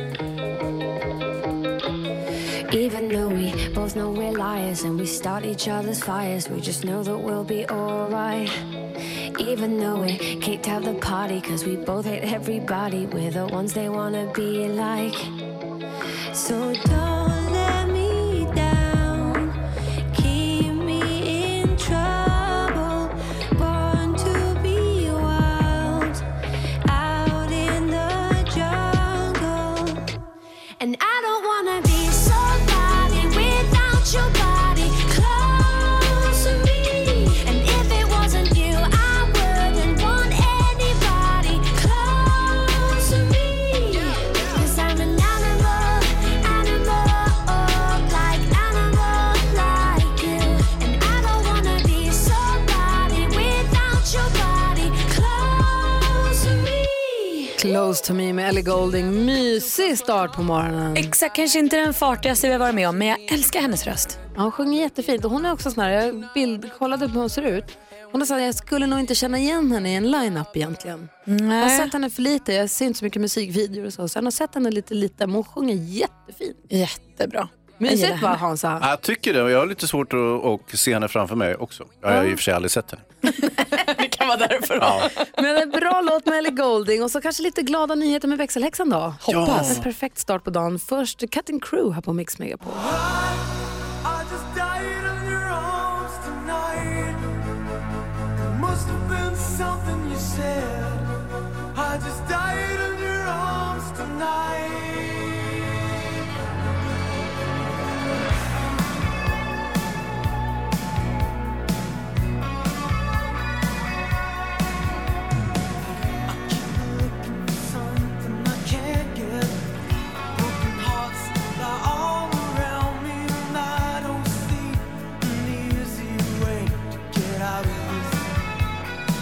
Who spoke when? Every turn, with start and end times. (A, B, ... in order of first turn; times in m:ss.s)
0:02.7-0:08.6 A
0:09.3-0:15.4 A
0:16.3-0:19.6 A
0:20.1-0:26.2 A
0:26.9-0:30.0 A
0:30.8-0:57.5 A
0:57.6-1:01.1 B
1:01.0-1:04.2 C
1:04.3-1:16.6 B
1:11.3-1:11.9 C
1:16.7-1:18.4 C
1:17.8-1:18.8 B
1:18.8-1:23.0 D
1:23.5-1:25.2 C
1:24.8-1:25.1 D
1:25.4-1:32.8 B
1:29.3-1:29.7 C
1:29.3-1:29.8 D
1:32.7-1:37.3 E
1:38.4-1:41.1 E
1:41.7-1:45.6 E
1:56.3-1:59.7 E
2:00.3-2:08.3 E